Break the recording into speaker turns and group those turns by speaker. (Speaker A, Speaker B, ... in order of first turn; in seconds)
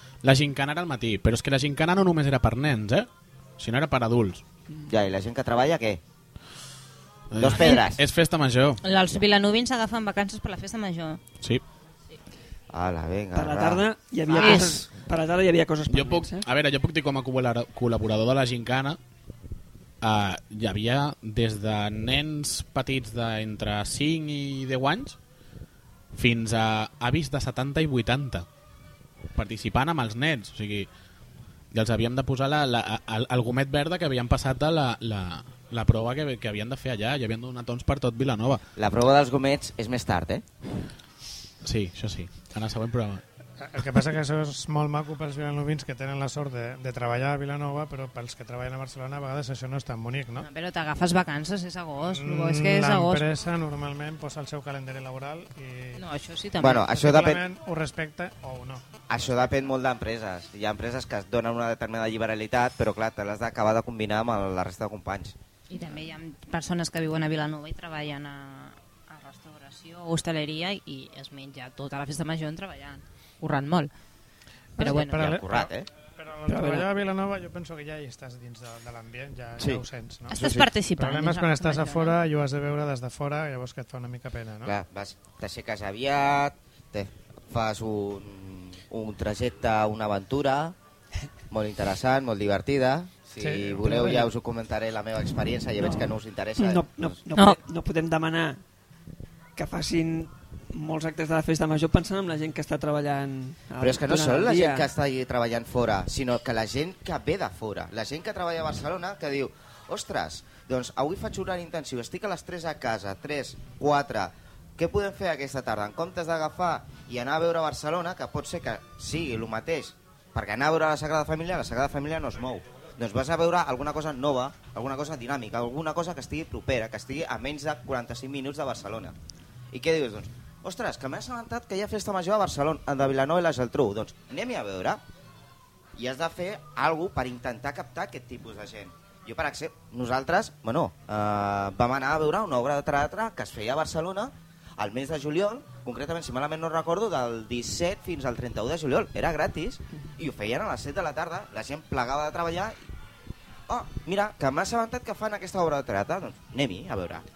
Speaker A: 0.2-4.4, 7.3-8.8, 15.9-19.0, 20.0-25.2, 26.1-28.5, 29.4-30.9, 31.7-38.6, 41.6-43.2
Speaker B: 4.9-6.0, 7.4-8.0, 12.7-14.6, 38.8-40.4, 56.6-57.5, 59.1-65.3, 74.9-75.9, 79.6-80.7, 84.6-90.8, 91.5-97.1, 103.8-129.2, 129.7-135.0, 136.0-152.8, 153.7-157.2
Speaker C: 7.6-7.8, 8.8-11.2, 14.4-14.8, 50.4-53.2, 56.0-56.9, 65.7-73.9, 74.8-75.3, 80.3-82.2
Speaker D: 13.3-16.5, 76.5-76.9, 95.8-98.6, 99.6-104.9
Speaker E: 43.6-50.5, 52.0-56.0, 56.8-58.9, 74.8-84.8, 93.4-94.3